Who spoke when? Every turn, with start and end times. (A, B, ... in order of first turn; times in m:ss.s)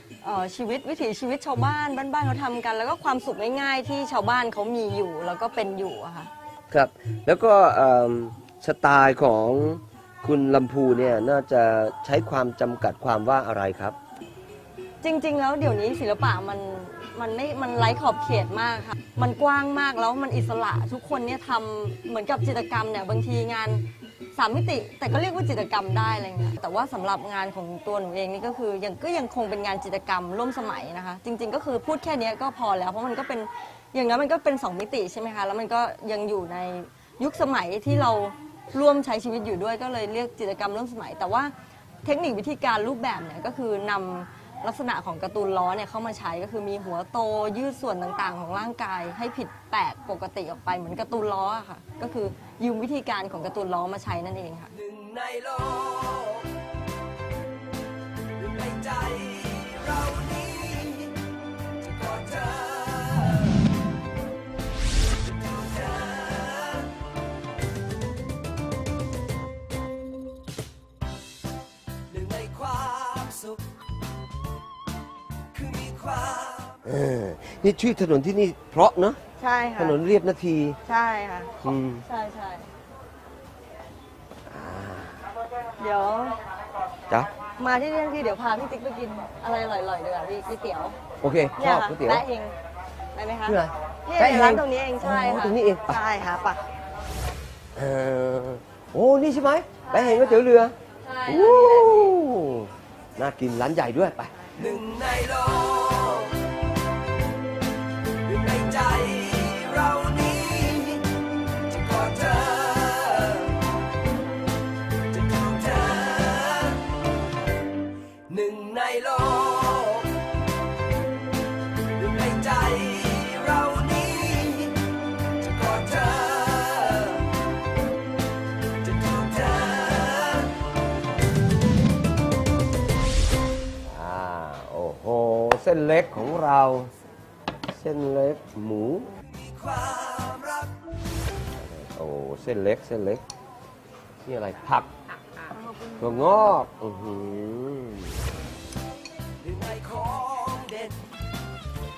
0:00.2-0:06.3 A
0:06.7-0:14.0 B
0:15.0-0:54.8 A
1:16.8-1:19.2 B
1:19.4-1:20.0 A
1:19.8-1:20.8 B
1:20.9-1:22.7 A
1:21.6-1:22.0 B
1:24.5-1:25.2 B
1:25.8-1:26.4 A
1:27.6-1:31.0 A
1:31.2-1:32.2 B
1:31.6-1:32.6 A
1:33.1-1:36.7 A
1:33.5-1:36.0 B
1:37.8-1:40.8 B
1:39.9-1:40.4 A
1:41.0-1:42.1 A
1:41.3-1:44.5 B
1:44.8-1:45.7 C
1:48.5-1:51.0 C
2:02.9-2:03.3 C
2:13.9-2:16.9 B
2:17.7-2:19.2 B
2:19.8-2:20.2 C
2:21.6-2:23.2 B
2:24.2-2:24.9 B
2:25.5-2:26.4 A
2:26.0-2:28.2 B
2:29.5-2:30.6 B
2:29.6-2:30.9 C